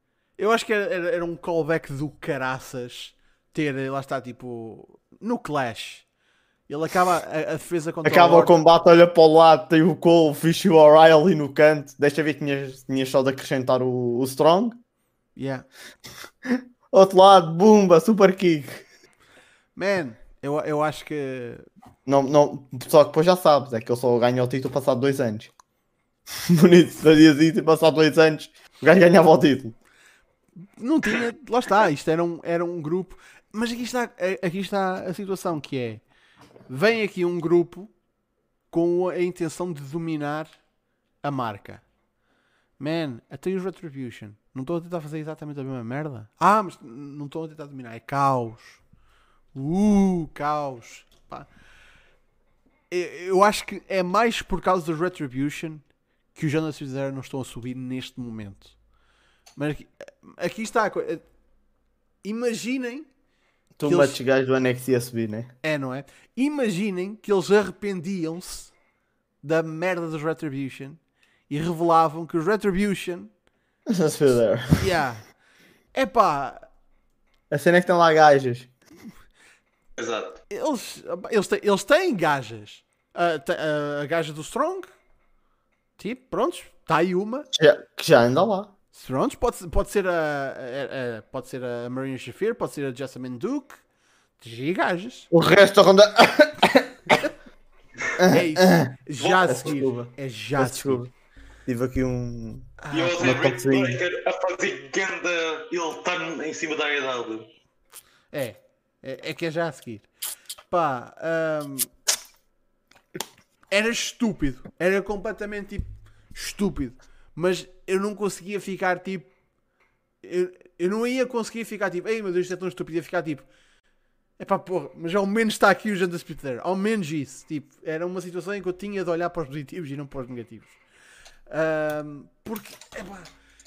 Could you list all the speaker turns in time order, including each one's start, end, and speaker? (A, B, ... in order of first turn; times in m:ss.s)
0:00.4-0:06.1 A
0:06.7-0:08.5 A
0:08.0-0:14.8 B
0:15.4-0:15.7 A
0:16.4-0:18.8 B
0:19.8-0:21.7 A
0:22.1-0:25.5 B
0:26.5-0:29.8 B
0:30.6-0:36.0 A
0:36.7-0:37.9 A
0:38.7-0:40.5 A
0:41.2-0:41.8 A
0:42.8-0:48.8 A
0:49.5-0:51.5 A
0:52.9-0:58.7 A
0:59.6-1:01.2 A
1:02.2-1:03.1 A
1:03.8-1:05.5 B
1:03.8-1:04.2 A
1:05.6-1:08.7 A
1:09.4-1:13.3 A
1:13.9-1:14.9 B
1:14.8-1:15.2 A
1:15.9-1:16.7 A
1:17.5-1:18.7 B
1:20.0-1:20.4 C
1:20.5-1:24.9 A
1:26.0-1:27.5 A
1:27.5-1:28.7 B
1:28.9-1:33.8 A
1:34.4-1:35.3 A
1:35.3-1:37.2 B
1:38.2-1:38.9 B
1:38.3-1:41.1 A
1:39.2-1:39.7 C
1:39.5-1:41.1 B
1:41.7-1:44.0 B
1:42.8-1:43.2 A
1:42.9-1:47.5 C
1:48.3-1:50.1 A
1:50.7-1:51.9 A
1:53.7-1:59.3 A
2:00.2-2:03.5 A
2:04.4-2:10.8 A
2:11.5-2:13.3 A